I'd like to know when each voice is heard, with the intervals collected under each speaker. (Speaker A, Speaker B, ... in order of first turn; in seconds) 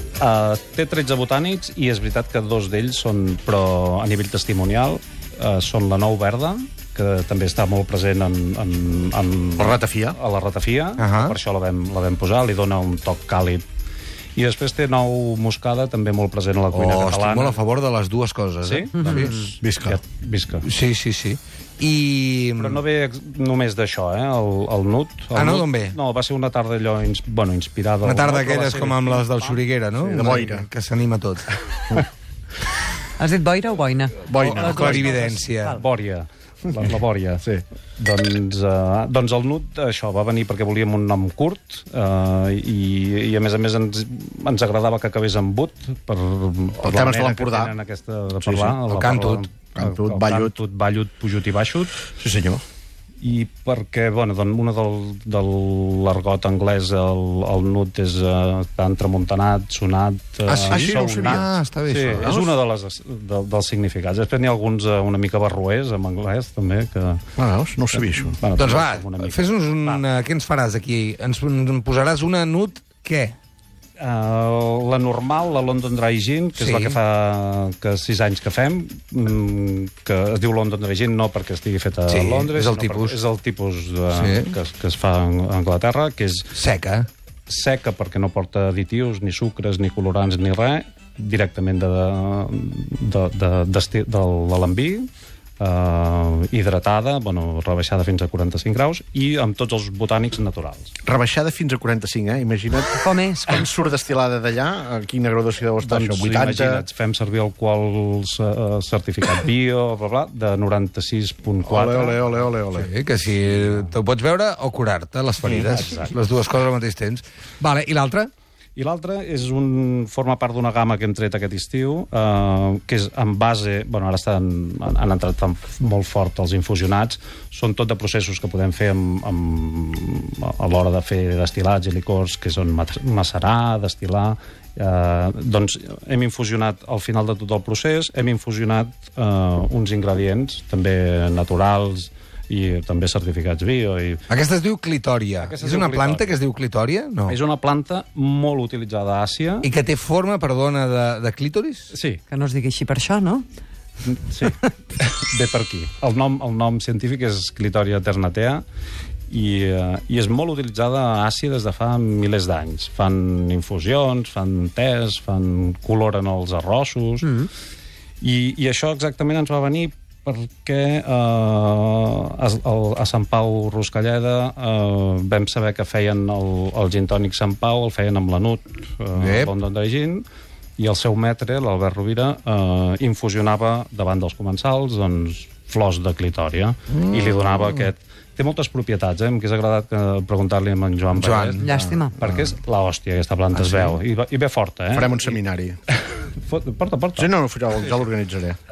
Speaker A: 0.2-13.6, 14.3-17.6, 18.6-20.7, 22.6-29.6, 35.8-37.4, 38.0-51.9, 53.2-67.2, 67.9-70.0, 74.0-86.5, 87.5-95.1, 95.6-100.9, 105.8-112.5, 113.5-113.9, 115.7-116.1, 118.8-144.2, 145.4-146.3, 147.3-149.7, 151.9-152.2, 154.1-158.6, 159.3-167.3, 168.2-180.2, 180.8-195.3, 196.4-197.3
Speaker B: 9.6-10.2, 19.6-20.0, 30.0-30.7, 34.3-35.1, 46.8-47.7, 48.5-48.7, 49.7-50.5, 52.2-52.6, 60.6-61.5, 62.2-62.5, 67.4-68.4, 101.0-106.8, 111.6-112.9, 194.9-195.8, 197.2-198.6
Speaker C: 11.0-11.3, 16.7-19.4, 20.6-22.8, 25.3-26.0, 28.0-31.4, 34.4-35.8, 48.9-49.5, 60.5-62.4, 68.5-73.3, 76.6-77.0, 82.1-83.2, 84.1-84.5, 86.5-87.1, 112.8-118.3, 144.3-147.4, 149.6-151.9, 179.2-179.5, 186.9-187.8, 191.1-191.7
Speaker D: 19.0-19.4, 33.2-35.8, 103.0-103.7, 152.3-153.4, 167.2-167.5, 191.6-192.2